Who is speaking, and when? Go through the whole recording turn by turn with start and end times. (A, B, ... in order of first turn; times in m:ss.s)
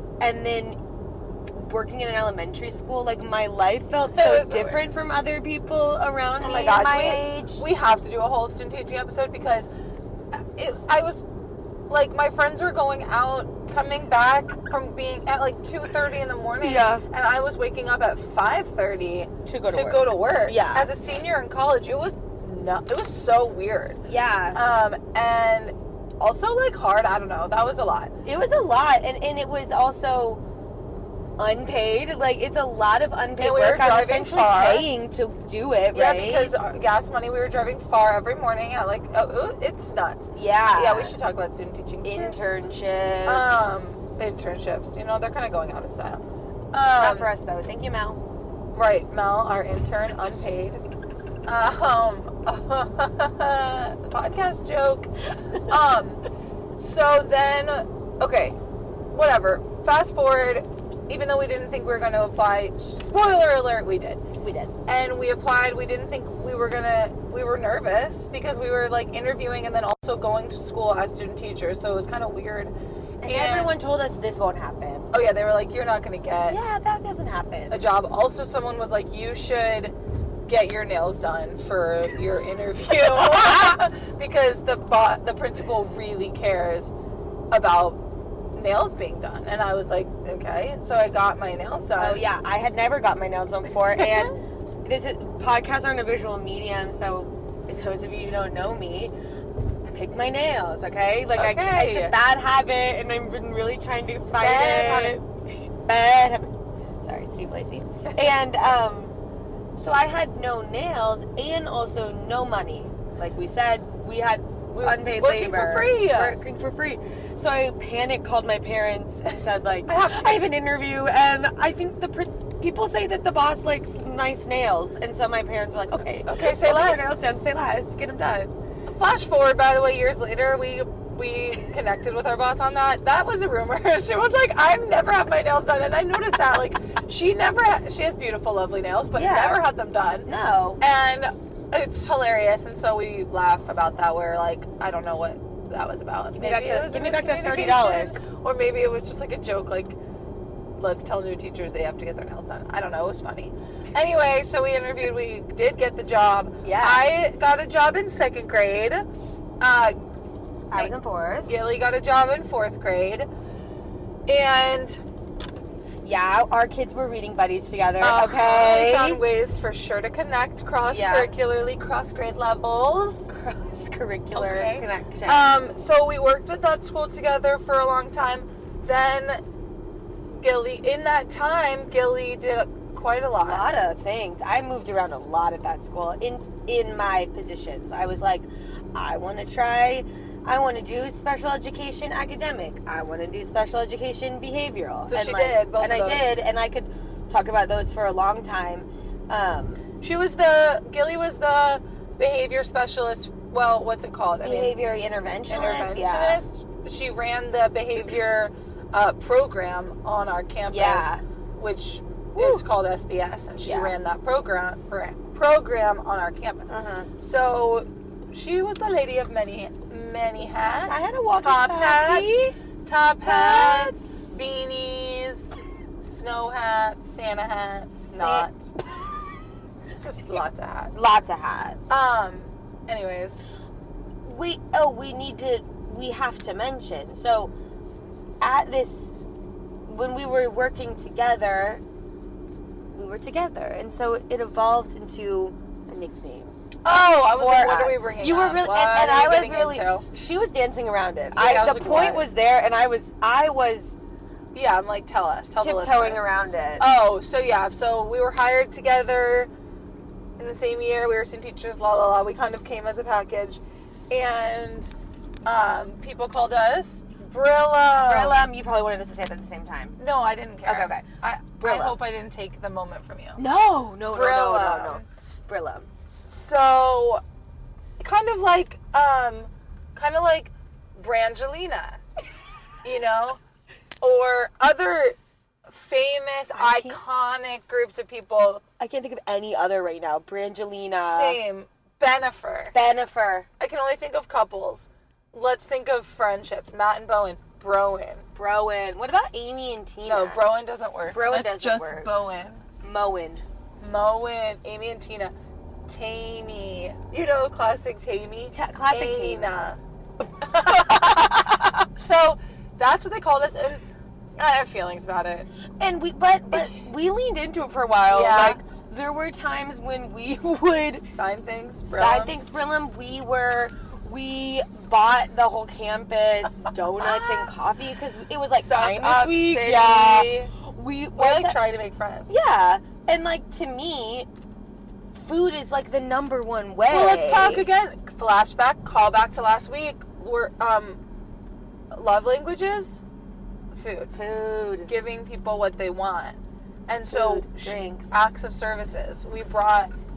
0:00.2-0:00.8 A
0:01.5-0:07.6 A
0:04.1-0:04.9 B
0:06.4-0:09.7 B
0:10.3-0:11.3 B
0:11.9-0:24.0 B
0:16.6-0:17.0 A
0:19.5-0:20.9 A
0:24.1-0:24.6 A
0:24.5-0:28.1 B
0:28.2-0:30.4 A
0:31.4-0:36.5 A
0:33.4-0:34.9 B
0:35.9-0:42.4 B
0:40.4-0:41.2 A
0:42.0-0:44.0 A
0:43.2-0:47.3 B
0:47.0-0:48.2 A
0:48.7-0:50.8 B
0:51.4-0:56.2 B
0:56.8-0:58.6 B
0:59.1-1:04.2 B
1:04.4-1:04.7 A
1:04.9-1:13.8 B
1:13.2-1:15.1 A
1:15.1-1:16.6 B
1:16.5-1:17.8 A
1:17.7-1:20.0 B
1:20.5-1:26.9 B
1:27.5-1:28.0 B
1:28.5-1:32.2 B
1:32.0-1:39.1 A
1:34.0-1:34.3 B
1:39.8-1:45.2 A
1:41.4-1:42.2 B
1:44.4-1:45.2 B
1:45.8-1:49.1 A
1:49.8-2:08.5 A
1:54.7-1:56.4 B
1:59.9-2:00.5 B
2:06.2-2:07.2 B
2:08.9-2:20.3 B
2:19.2-2:19.6 A
2:20.3-2:20.8 A
2:20.8-2:30.0 B
2:26.4-2:28.3 A
2:30.8-2:39.0 B
2:36.6-2:37.1 A
2:39.6-2:40.1 B
2:40.7-2:41.5 A
2:41.5-2:43.3 B
2:44.3-2:45.0 B
2:46.0-2:49.2 A
2:48.0-2:53.3 B
2:50.9-2:51.3 A
2:53.3-2:55.5 A
2:54.3-2:59.4 B
3:00.3-3:03.7 B
3:03.4-3:19.8 A
3:15.1-3:16.3 B
3:20.0-3:24.8 B
3:24.4-3:26.4 A
3:25.5-3:48.7 B
3:30.7-3:31.2 A
3:32.4-3:32.7 A
3:33.6-3:33.9 A
3:36.7-3:37.1 A
3:40.9-3:42.6 A
3:43.2-3:44.4 A
3:48.0-3:48.5 A
3:50.0-3:50.9 B
3:50.9-3:51.8 A
3:51.9-3:53.4 B
3:54.2-3:57.5 A
3:58.4-3:59.2 A
3:59.9-4:01.8 A
4:02.9-4:06.5 A
4:06.8-4:10.1 B
4:07.3-4:14.0 A
4:11.3-4:12.3 B
4:14.5-4:16.3 B
4:15.6-4:16.8 A
4:16.8-4:19.5 B
4:20.4-4:24.9 B
4:25.4-4:28.5 B
4:28.0-4:30.0 A
4:30.0-4:33.4 B
4:30.6-4:31.1 A
4:31.6-4:32.0 A
4:33.4-4:35.9 A
4:34.1-4:35.1 B
4:36.2-4:37.2 B
4:38.0-4:42.0 B
4:42.8-4:43.4 B
4:44.0-4:48.6 B
4:46.5-4:47.0 A
4:48.8-4:51.4 A
4:51.0-4:52.8 B
4:52.7-4:53.5 A
4:53.6-4:58.2 B
4:58.4-5:00.4 A
5:00.0-5:02.6 B
5:01.1-5:02.1 A
5:02.8-5:03.4 A
5:03.8-5:05.3 B
5:05.9-5:09.8 B
5:08.5-5:09.5 A
5:10.4-5:13.8 B
5:10.6-5:11.9 A
5:14.4-5:15.5 B
5:15.8-5:21.1 A
5:18.1-5:18.6 B
5:21.1-5:22.3 B
5:21.8-5:31.6 A
5:27.0-5:27.5 B
5:28.6-5:30.6 B
5:31.2-5:32.3 B
5:32.3-5:34.3 A
5:35.1-5:37.7 A
5:36.9-5:41.0 B
5:41.9-5:43.0 B
5:43.7-5:44.1 B
5:44.1-5:44.9 A
5:44.9-5:49.9 B
5:47.1-5:48.1 A